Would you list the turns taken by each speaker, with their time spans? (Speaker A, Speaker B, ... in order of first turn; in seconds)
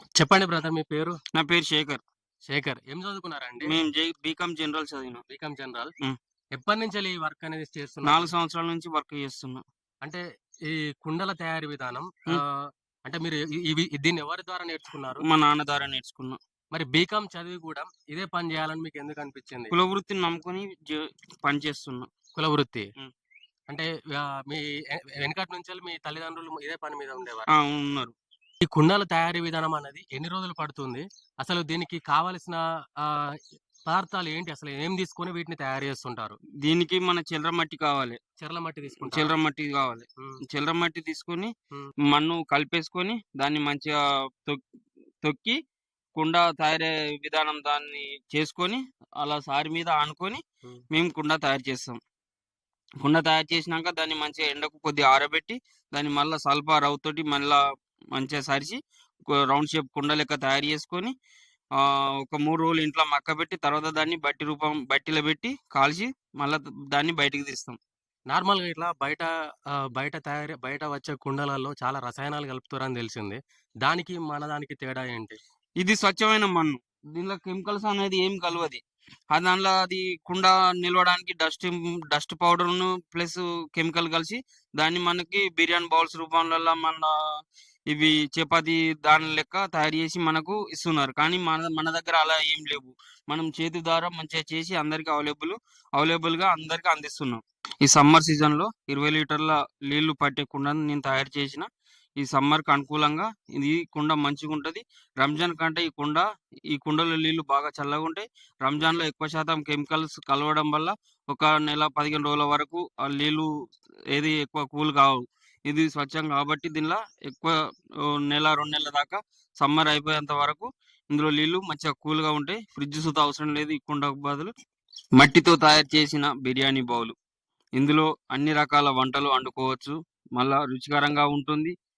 Speaker A: 0.2-1.1, 2.5-3.8, 5.3-5.9, 6.5-8.3, 10.0-12.5, 13.1-15.2, 16.7-19.7, 22.4-22.9, 23.7-24.6, 25.2-27.5, 28.6-33.0, 33.9-36.4, 38.4-39.3, 68.3-69.3, 69.9-75.4
Speaker B: 1.4-2.0, 3.6-5.2, 8.0-9.6, 15.2-16.4, 19.7-22.1, 27.5-28.1, 36.6-38.2, 39.1-41.5, 42.1-44.6, 45.2-45.6, 46.2-52.0, 53.0-57.6, 58.1-58.8, 59.3-61.1, 61.8-67.8, 75.8-87.1, 87.9-101.7, 102.2-113.5, 114.1-117.6, 118.1-124.5, 125.2-127.2, 127.8-131.8